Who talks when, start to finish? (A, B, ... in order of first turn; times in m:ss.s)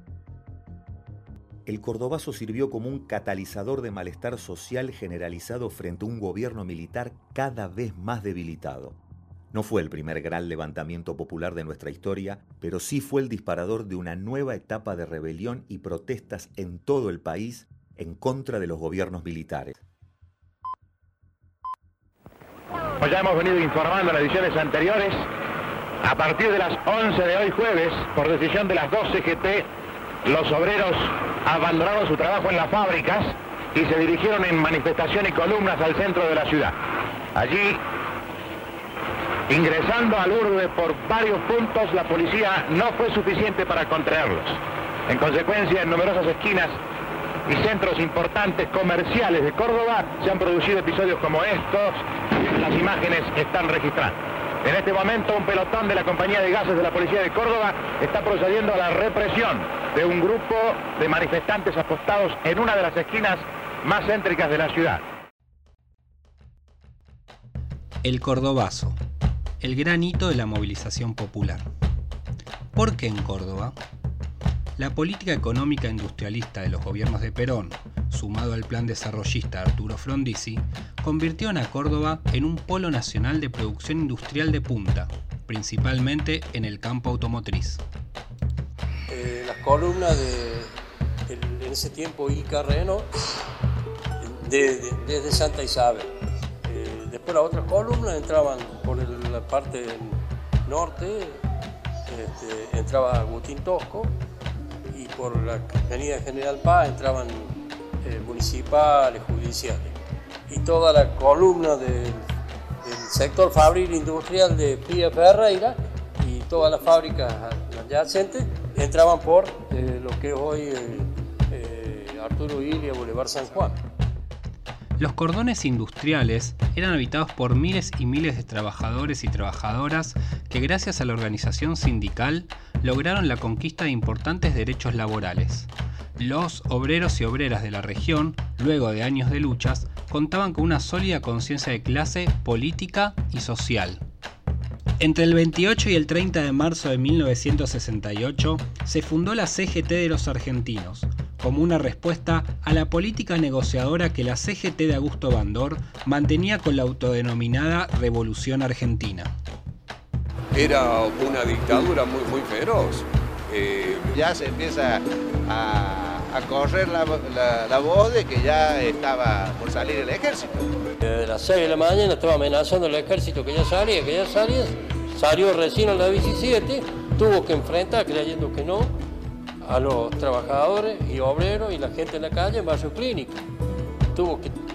0:01.6-0:09.0 A
0:09.5-0:19.8 A
0:23.0-0:25.2 B
0:26.0-0:29.7 B
0:30.2-0:36.7 B
0:37.3-0:37.8 B
0:39.5-0:46.8 B
0:47.4-1:05.0 B
1:08.0-1:09.0 C
1:09.6-1:11.7 C
1:12.7-1:13.7 C
1:14.8-1:27.8 C
1:29.1-1:30.7 D
1:31.3-1:33.5 D
1:34.2-1:36.1 D
1:36.6-1:41.4 D
1:42.1-1:44.1 D
1:44.9-1:49.9 D
1:50.5-1:52.2 D
1:52.8-2:03.8 D
2:05.0-2:24.0 C
2:25.0-2:39.3 C
2:40.5-2:44.1 E
2:44.1-2:50.7 F
2:51.0-2:59.0 D
2:59.6-3:03.4 D
3:04.1-3:04.5 D